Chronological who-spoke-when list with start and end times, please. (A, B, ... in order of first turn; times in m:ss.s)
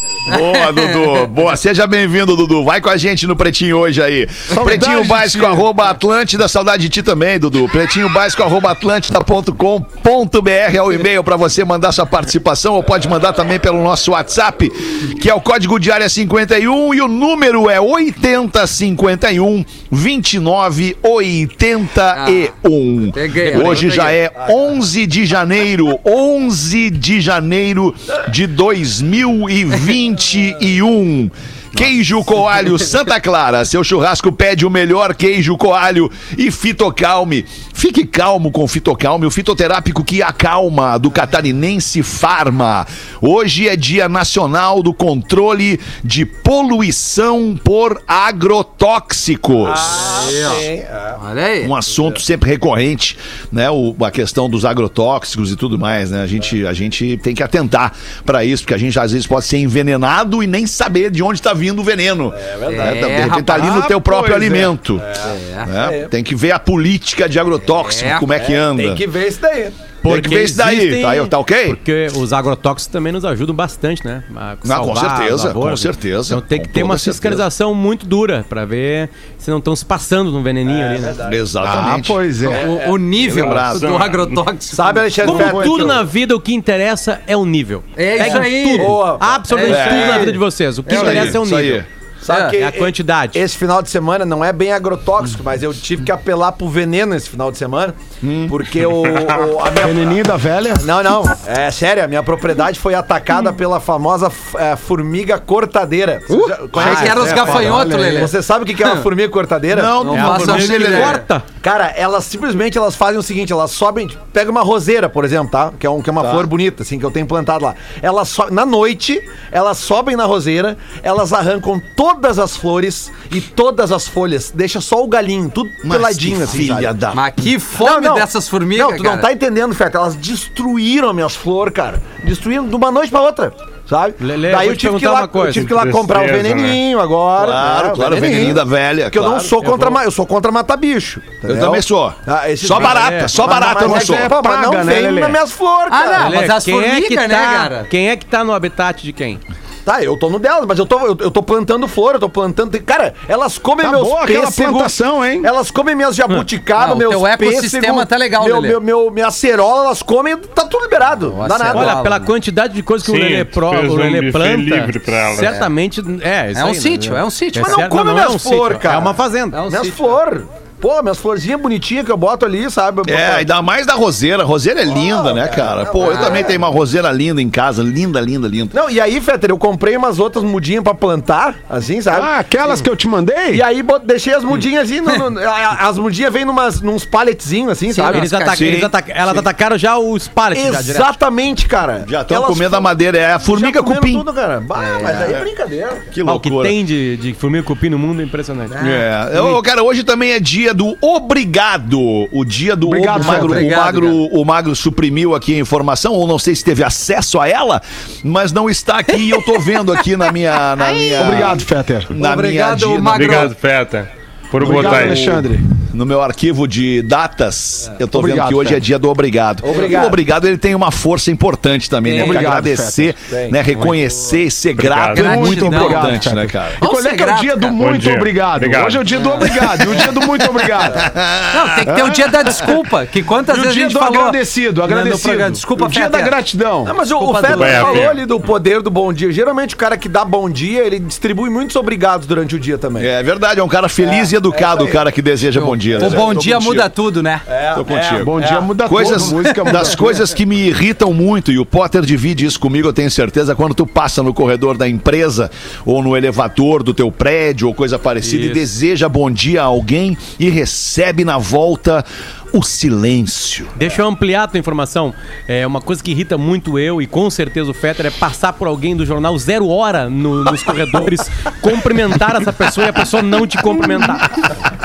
0:00.2-0:50.0 A
0:00.3-0:01.2 B
0:04.5-0:05.6 C
0:22.1-0:22.5 B
0:23.1-0:24.2 B
0:49.6-0:51.2 D
0:50.0-0:51.7 B
0:51.6-1:05.0 A
1:02.4-1:03.4 D
1:02.6-1:03.8 B
1:03.5-1:04.7 C
1:05.0-1:06.1 D
1:05.2-1:05.7 B
1:05.6-1:09.0 A
1:07.8-1:08.3 B
1:08.3-1:09.8 D
1:10.0-1:21.2 E
1:10.0-1:11.8 A
1:14.6-1:17.5 A
1:20.6-1:21.5 D
1:21.2-1:22.2 A
1:21.6-1:22.7 C
1:22.4-1:23.0 D
1:22.5-1:25.6 B
1:23.1-1:24.0 A
1:23.7-1:24.4 F
1:24.7-1:26.0 D
1:25.2-1:31.8 E
1:28.0-1:31.4 B
1:28.2-1:29.8 D
1:29.6-1:31.9 A
1:32.2-1:40.2 D
1:32.3-1:32.6 B
1:32.6-1:33.4 E
1:38.2-1:38.6 A
1:39.1-1:39.4 F
1:39.8-1:40.9 C
1:40.8-1:50.0 D
1:46.3-1:49.1 B
1:46.8-1:47.6 E
1:46.8-1:48.3 C
1:49.7-1:51.2 A
1:50.0-1:51.2 B
1:50.0-1:51.4 E
1:51.6-2:06.9 D
1:56.2-1:56.5 A
2:05.8-2:07.2 A
2:07.1-2:09.3 B
2:07.7-2:26.3 D
2:14.2-2:15.7 E
2:15.6-2:16.8 F
2:17.4-2:19.5 A
2:19.6-2:20.0 E
2:21.4-2:24.3 A
2:22.7-2:23.5 E
2:23.5-2:25.4 C
2:25.9-2:27.9 B
2:26.2-2:29.4 E
2:29.8-2:42.1 D
2:33.8-2:35.5 C
2:36.8-2:38.8 B
2:41.2-2:42.2 B
2:41.7-2:49.6 E
2:43.0-2:45.7 F
2:46.5-2:47.9 B
2:47.6-2:53.5 D
2:49.5-2:50.2 B
2:53.0-2:58.7 A
2:54.9-2:56.7 D
2:56.0-2:56.5 B
2:58.7-3:02.3 D
3:02.1-3:03.6 C
3:03.5-3:08.3 D
3:07.9-3:08.7 B
3:08.1-3:11.1 E
3:08.5-3:08.9 A
3:10.5-3:16.1 D
3:12.0-3:14.2 A
3:14.7-3:15.4 B
3:16.1-3:16.8 A
3:16.2-3:18.8 E
3:18.8-3:19.0 D
3:18.8-3:33.5 A
3:19.3-3:19.6 E
3:22.8-3:23.7 C
3:23.1-3:24.2 B
3:31.2-3:32.1 C
3:32.1-3:33.5 B
3:33.0-3:35.4 F
3:34.6-3:35.6 C
3:34.7-3:46.8 A
3:38.1-3:38.8 C
3:39.6-3:40.2 D
3:42.0-3:42.6 B
3:42.2-3:43.1 C
3:43.3-3:43.6 D
3:44.8-3:45.5 F
3:45.1-3:46.3 B
3:45.1-3:51.0 C
3:46.8-3:47.8 B
3:47.8-3:49.0 F
3:49.2-3:49.5 B
3:49.7-3:52.8 A
3:51.5-3:56.4 B
3:51.9-3:52.2 C
3:53.5-3:56.9 C
3:56.8-4:03.1 D
3:57.1-3:58.1 B
3:57.4-3:58.2 F
4:03.0-4:06.9 A
4:04.0-4:05.0 D
4:05.5-4:07.4 B
4:05.9-4:06.5 D
4:07.5-4:09.2 D
4:07.7-4:23.7 A
4:08.1-4:10.1 C
4:18.2-4:18.6 E
4:23.8-4:34.4 E